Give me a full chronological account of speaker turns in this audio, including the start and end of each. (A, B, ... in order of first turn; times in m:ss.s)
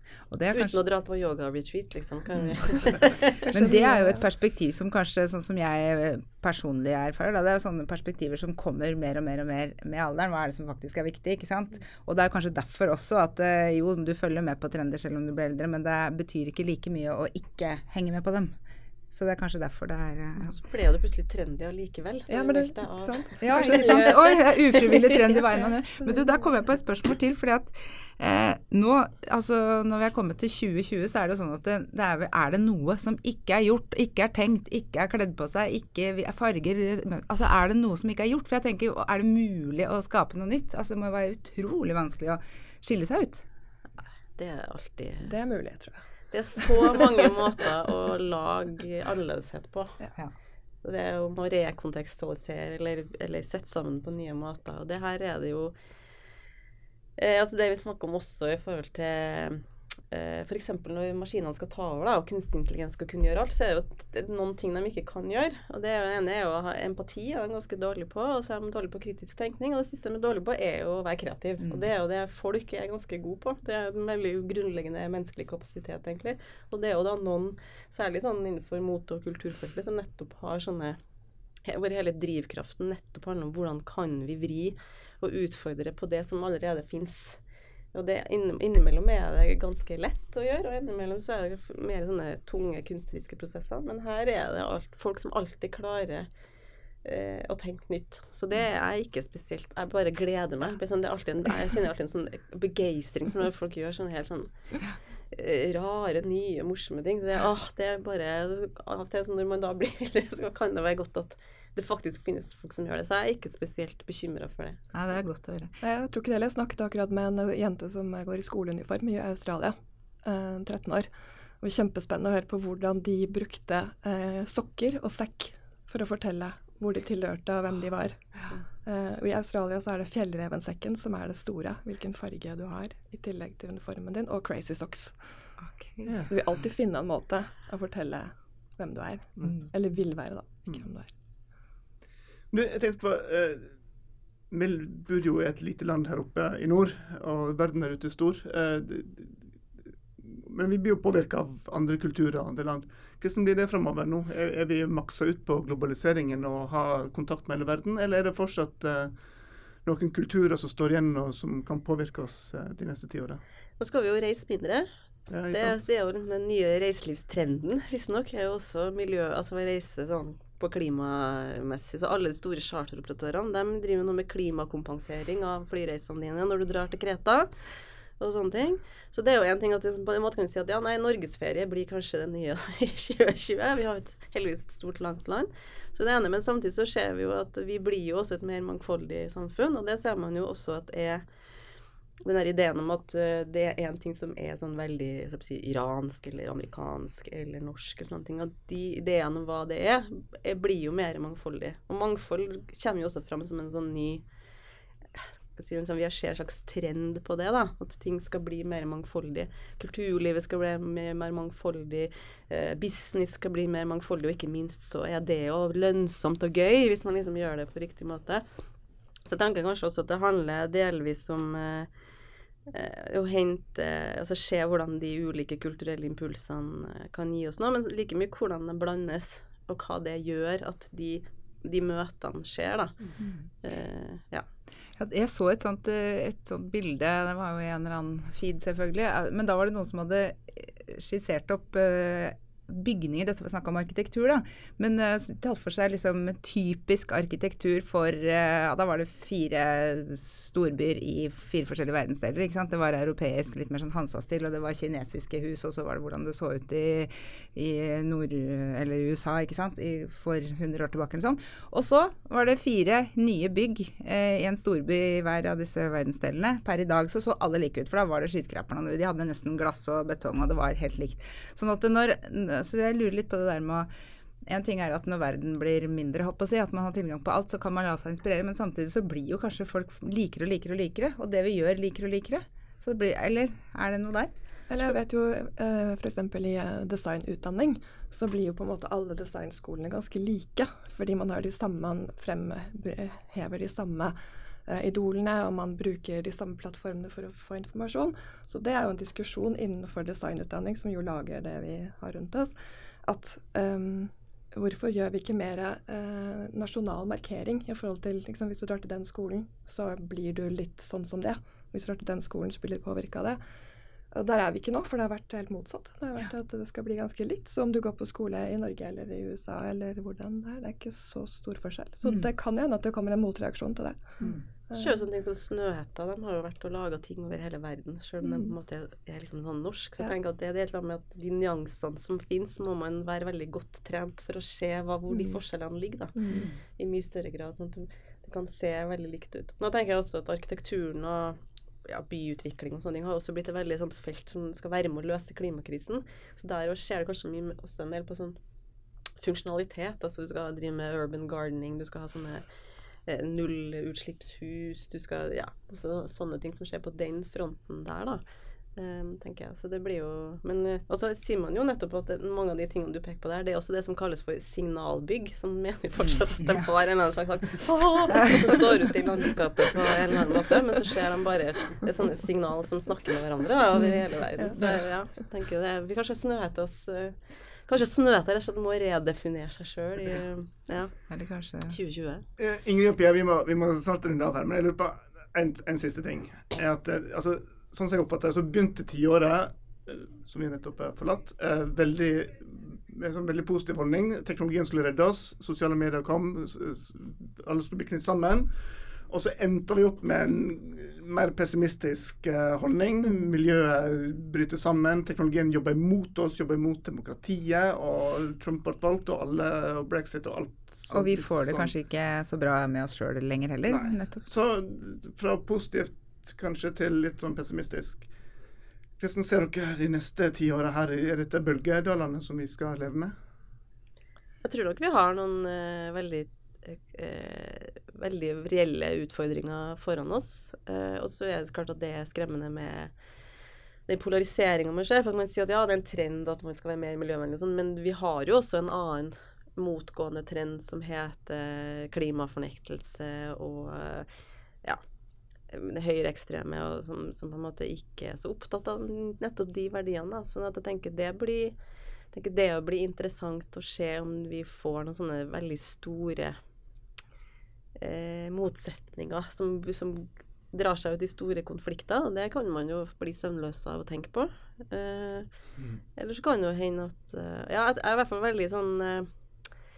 0:00.3-0:00.8 A
0:00.5-0:03.5 B
0:03.5-0:18.5 A
0:03.5-0:04.2 C
0:19.1-0:20.6 A
0:20.4-0:25.4 B
0:22.3-0:24.2 C
0:23.4-0:43.4 A
0:44.4-0:45.3 B
0:45.2-0:46.0 C
0:46.3-0:50.0 B
0:50.8-0:55.7 B
0:57.2-1:21.0 B
1:21.6-1:27.4 B
1:27.9-1:36.3 B
1:37.0-1:44.5 B
1:45.3-1:54.8 B
1:54.9-1:55.7 A
1:55.8-2:01.1 C
2:01.6-2:08.2 C
2:08.8-2:15.1 C
2:15.8-2:16.1 A
2:16.0-2:16.3 D
2:16.2-2:21.1 C
2:22.5-2:23.7 D
2:24.5-2:29.5 D
2:30.2-2:39.2 D
2:39.8-2:43.4 D
2:43.8-2:44.9 B
2:45.3-2:45.8 D
2:45.5-2:57.5 B
2:58.2-3:11.2 B
3:12.2-3:24.2 B
3:25.1-3:38.4 B
3:39.2-3:41.9 B
3:42.7-3:53.0 B
3:53.6-3:54.4 B
3:55.0-4:33.9 A
4:34.4-4:44.3 A
4:44.7-4:54.2 C
4:54.7-5:02.5 C
5:03.0-5:13.4 C
5:14.1-5:25.0 C
5:24.7-5:48.4 B
5:28.2-5:28.5 C
5:35.1-5:35.4 C
5:36.2-5:36.5 C
5:36.3-5:36.6 A
5:49.2-5:52.4 B
5:53.0-5:58.2 B
5:58.8-6:20.9 B
6:06.4-6:06.7 A
6:08.2-6:08.6 A
6:14.4-6:14.7 C
6:21.1-6:21.8 A
6:21.7-6:22.2 B
6:22.4-6:38.5 D
6:39.1-6:51.7 D
6:50.9-6:54.2 A
6:53.7-6:58.1 D
6:59.0-7:03.1 D
7:04.4-7:12.9 B
7:13.9-7:24.1 B
7:25.5-7:31.6 B
7:32.1-7:36.4 B
7:37.8-7:45.3 B
7:45.9-7:49.1 B